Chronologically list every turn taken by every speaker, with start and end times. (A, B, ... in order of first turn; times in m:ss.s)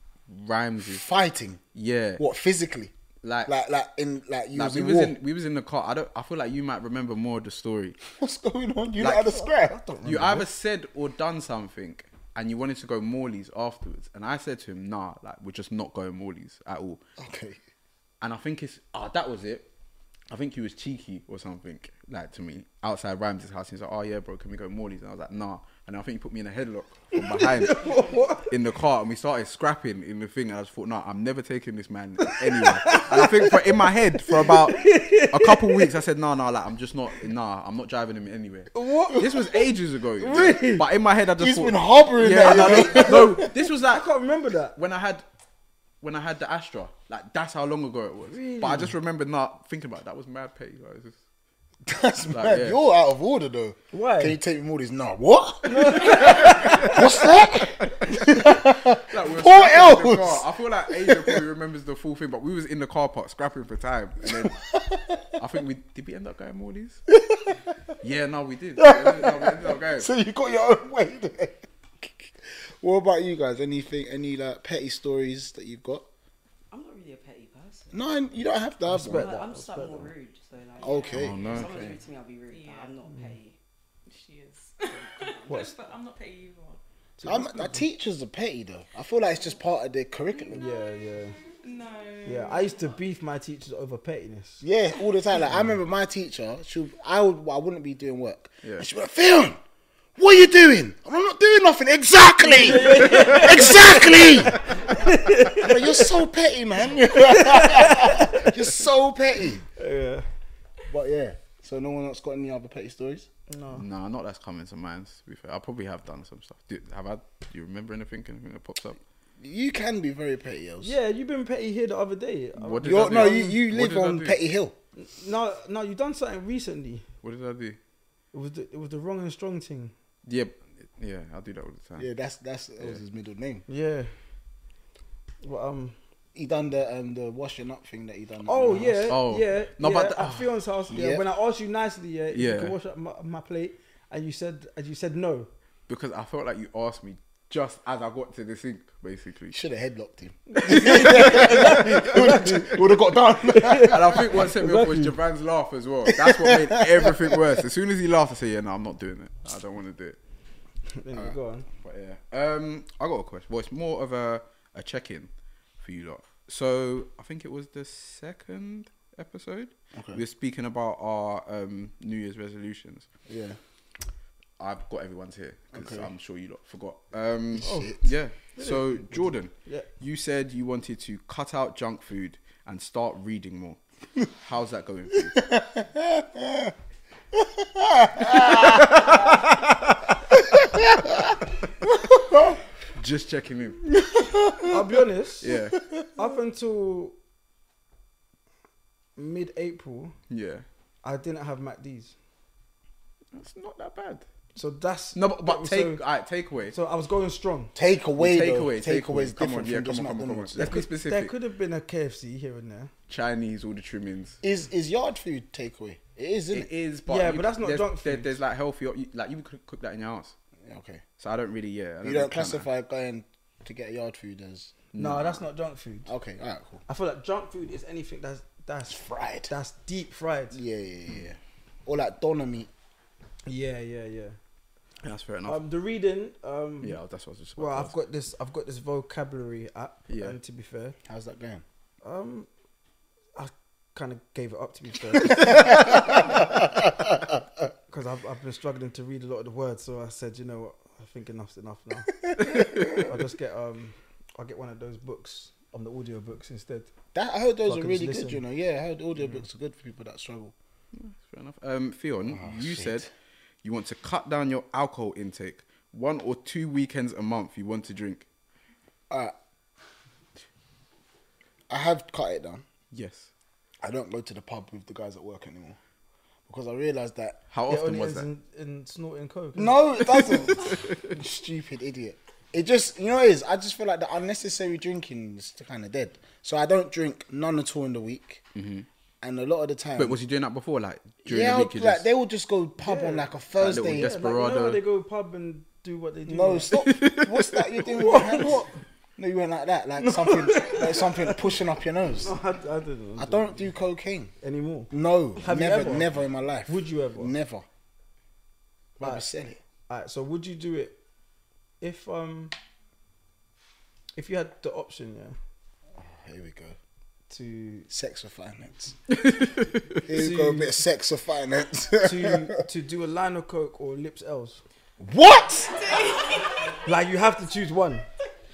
0:00.3-0:01.0 A
0:00.8-0:01.6 B
0:01.7-0:02.2 A
0:02.2-0:02.9 B
0:03.2-0:03.5 A
0:03.4-0:05.2 B
0:04.5-0:08.0 A
0:08.1-0:09.8 B
0:09.0-0:09.4 A
0:09.4-0:10.4 C
0:10.0-0:17.0 A
0:17.2-0:17.6 B
0:18.2-0:19.7 A
0:20.3-0:44.1 A
0:27.1-0:28.5 C
0:32.6-0:33.7 C
0:34.2-0:35.9 C
0:38.7-0:39.3 C
0:40.2-0:40.8 C
0:41.4-0:43.5 B
0:42.3-0:44.8 C
0:44.7-0:45.2 A
0:46.0-0:51.2 A
0:48.3-0:48.9 C
0:51.8-1:01.4 B
0:52.3-0:52.8 A
0:53.9-0:54.4 C
0:55.6-0:57.0 C
0:56.0-0:57.0 A
0:58.0-1:04.6 A
1:04.2-1:05.2 B
1:05.4-1:07.0 A
1:07.1-1:07.5 B
1:08.0-1:10.1 A
1:08.8-1:16.0 B
1:16.7-1:18.0 D
1:17.9-1:19.3 B
1:18.9-1:20.1 C
1:19.0-1:23.6 D
1:20.8-1:21.4 E
1:20.8-1:21.9 B
1:21.1-1:22.0 A
1:22.5-1:23.0 E
1:23.1-1:23.3 C
1:24.1-1:26.8 E
1:24.9-1:25.6 D
1:27.2-1:27.8 C
1:27.2-1:30.6 B
1:30.5-1:31.4 C
1:31.6-1:33.0 E
1:32.2-1:34.6 C
1:34.6-1:39.6 B
1:40.2-1:44.7 B
1:42.4-1:46.1 C
1:42.8-1:43.7 A
1:45.5-1:49.6 B
1:47.0-1:48.5 C
1:49.8-1:50.2 C
1:50.9-1:53.3 B
1:53.5-1:53.8 C
1:53.7-1:59.0 A
1:59.4-2:01.0 B
2:00.8-2:03.6 C
2:02.6-2:04.4 A
2:02.8-2:04.8 B
2:05.0-2:07.0 C
2:07.2-2:07.8 A
2:08.3-2:09.9 C
2:10.2-2:12.1 A
2:12.0-2:13.6 B
2:13.7-2:14.1 C
2:15.4-2:16.0 C
2:16.3-2:19.2 B
2:18.4-2:25.5 C
2:19.1-2:20.5 A
2:20.9-2:21.2 B
2:22.3-2:22.7 A
2:25.9-2:29.6 A
2:29.5-2:34.4 B
2:30.5-2:32.8 C
2:30.6-2:32.6 A
2:33.5-2:35.2 C
2:33.9-2:40.2 A
2:36.1-2:37.4 B
2:41.0-2:41.7 C
2:41.8-2:53.1 A
2:49.9-2:50.2 B
2:53.3-2:53.6 B
2:54.6-3:05.4 A
2:55.7-2:56.1 B
2:57.5-2:58.1 B
2:57.6-2:58.0 C
2:58.6-2:59.9 C
3:05.4-3:06.7 B
3:07.3-3:09.1 B
3:08.3-3:09.2 A
3:10.5-3:11.2 B
3:11.8-3:12.6 B
3:13.0-3:13.8 A
3:13.9-3:14.8 B
3:14.7-3:15.5 C
3:15.4-3:15.8 A
3:15.5-3:16.0 B
3:16.2-3:17.1 C
3:19.2-3:20.1 C
3:20.3-3:20.6 A
3:21.0-3:22.1 C
3:23.3-3:24.2 A
3:24.6-3:26.0 C
3:25.1-3:26.7 A
3:26.7-3:27.7 C
3:27.7-3:30.8 B
3:28.2-3:31.3 A
3:30.6-3:32.9 C
3:33.1-3:34.4 A
3:34.4-3:36.7 B
3:36.5-3:40.3 A
3:37.1-3:38.4 C
3:40.6-3:41.0 B
3:41.2-3:42.6 A
3:42.0-3:44.7 B
3:44.9-3:45.4 A
3:45.0-3:46.1 C
3:46.1-3:46.8 B
3:46.9-3:50.6 C
3:48.8-3:49.5 B
3:50.5-3:52.7 B
3:53.4-3:54.4 C
3:55.0-3:55.6 A
3:55.4-3:57.0 C
3:56.8-3:57.9 A
3:57.6-4:01.0 C
4:00.1-4:00.4 A
4:01.1-4:01.6 B
4:02.0-4:02.5 C
4:03.4-4:06.4 C
4:05.5-4:07.3 B
4:07.9-4:12.2 C
4:12.4-4:12.9 B
4:13.0-4:16.9 C
4:17.1-4:20.5 B
4:17.6-4:18.4 C
4:20.9-4:23.1 A
4:22.2-4:23.0 B
4:23.6-4:28.2 A
4:31.7-4:32.6 B
4:32.9-4:33.3 A
4:33.8-4:35.8 B
4:36.5-4:37.4 B
4:37.5-4:38.3 A
4:37.7-4:39.9 C
4:39.6-4:48.4 B
4:40.0-4:41.1 A
4:48.5-4:48.9 A
4:49.2-4:50.2 B
4:50.0-4:52.0 A
4:51.2-4:54.1 B
4:52.8-4:53.3 C
4:53.6-4:54.8 A
4:53.8-4:56.7 C
4:56.2-5:02.3 B
4:56.7-4:57.6 A
4:57.9-4:58.6 C
5:00.0-5:01.4 C
5:02.2-5:03.7 C
5:03.2-5:04.3 B
5:04.4-5:07.3 C
5:04.9-5:07.6 B
5:09.0-5:09.6 B
5:09.9-5:11.0 C
5:11.8-5:12.5 C
5:14.2-5:15.3 C
5:16.0-5:16.8 B
5:17.3-5:17.9 C
5:17.9-5:19.0 B
5:19.1-5:20.0 A
5:20.0-5:22.6 B
5:20.1-5:20.8 C
5:22.0-5:24.6 C
5:25.0-5:25.9 B
5:25.9-5:26.2 E
5:26.8-5:28.0 C